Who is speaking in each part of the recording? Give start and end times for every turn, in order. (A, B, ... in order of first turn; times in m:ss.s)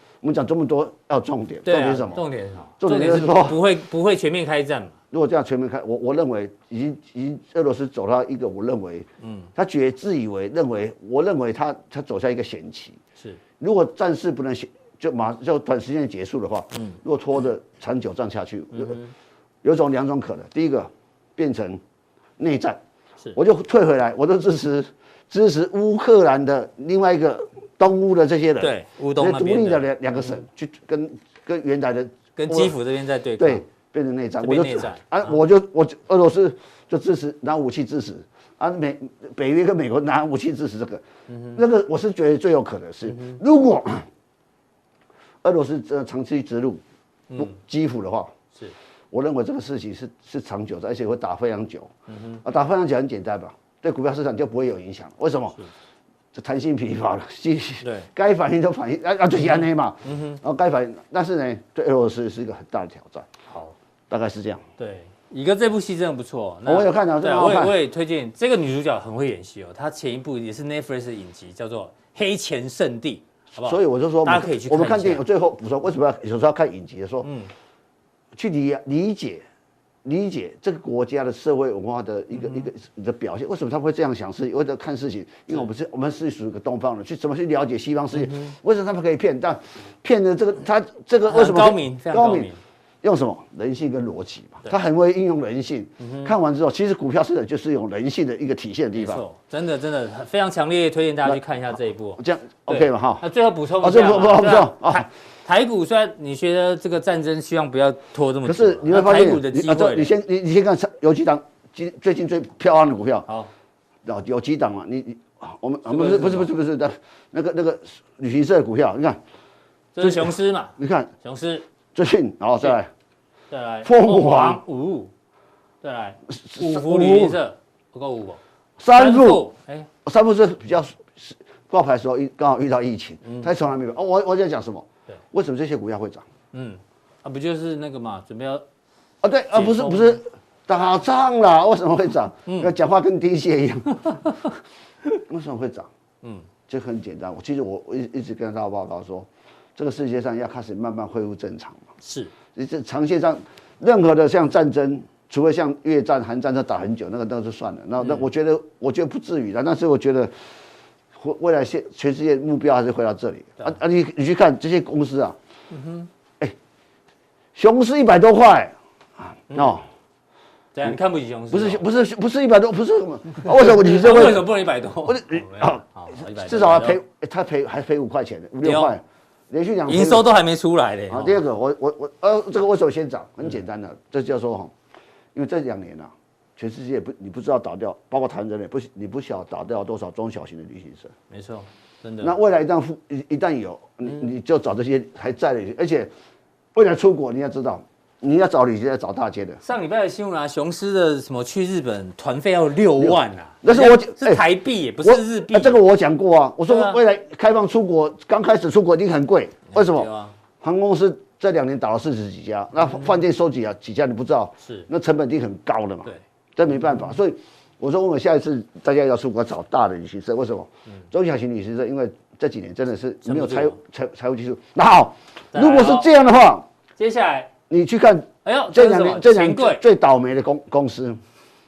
0:00.2-0:02.2 A
0:01.6-0:04.9 B
0:02.8-0:03.6 A
0:05.1-0:13.0 A
0:09.2-0:09.5 B
0:13.6-0:19.0 A
0:18.7-0:19.1 B
0:19.6-0:21.8 A
0:22.4-0:22.8 A
0:23.4-0:32.8 A
0:28.6-0:30.2 B
0:32.4-0:33.7 B
0:33.4-0:44.1 A
0:34.4-0:35.4 B
0:41.3-0:41.6 B
0:43.0-0:43.4 B
0:45.4-0:46.8 A
0:47.3-0:48.3 A
0:49.1-0:51.9 A
0:52.1-0:52.4 B
0:52.4-0:55.6 A
0:56.3-1:03.3 A
0:57.8-0:58.1 B
1:00.0-1:00.4 B
1:03.5-1:03.7 B
1:04.1-1:04.6 A
1:04.8-1:15.2 B
1:06.6-1:07.8 A
1:13.6-1:17.3 A
1:17.2-1:17.5 B
1:18.3-1:19.4 A
1:20.0-1:32.5 A
1:28.1-1:28.5 B
1:31.2-1:32.6 B
1:33.0-1:39.2 A
1:36.0-1:36.3 B
1:38.9-1:50.1 B
1:42.2-1:43.2 A
1:43.8-1:45.1 A
1:48.4-1:53.2 A
1:54.0-1:59.2 A
1:55.9-1:56.5 B
1:59.9-2:01.6 B
2:00.0-2:01.1 A
2:01.9-2:02.9 A
2:03.5-2:05.1 B
2:03.8-2:04.6 A
2:05.8-2:08.4 B
2:06.3-2:07.4 A
2:08.8-2:09.4 A
2:08.9-2:09.9 B
2:10.0-2:16.2 A
2:13.2-2:13.5 B
2:16.5-2:18.6 B
2:19.2-2:24.5 A
2:19.5-2:20.2 B
2:25.2-2:25.9 A
2:26.7-2:31.8 A
2:32.0-2:32.3 B
2:32.5-2:40.3 A
2:38.0-2:38.3 B
2:41.1-2:45.4 A
2:45.7-2:46.1 B
2:47.5-2:49.8 A
2:49.5-2:49.8 B
2:50.7-2:51.8 B
2:51.5-3:00.3 A
2:53.5-2:57.0 B
2:58.6-2:58.9 B
2:59.9-3:01.4 B
3:01.1-3:04.7 A
3:05.3-3:11.1 A
3:11.3-3:12.4 B
3:12.2-3:16.1 A
3:16.7-3:19.6 A
3:19.6-3:25.8 B
3:23.0-3:24.4 A
3:25.0-3:30.1 A
3:26.7-3:27.0 B
3:29.7-3:30.3 B
3:30.6-3:46.6 A
3:34.6-3:34.9 B
3:43.2-3:43.8 B
3:45.5-3:46.1 B
3:47.0-3:47.5 B
3:47.7-3:51.2 A
3:48.4-3:49.8 B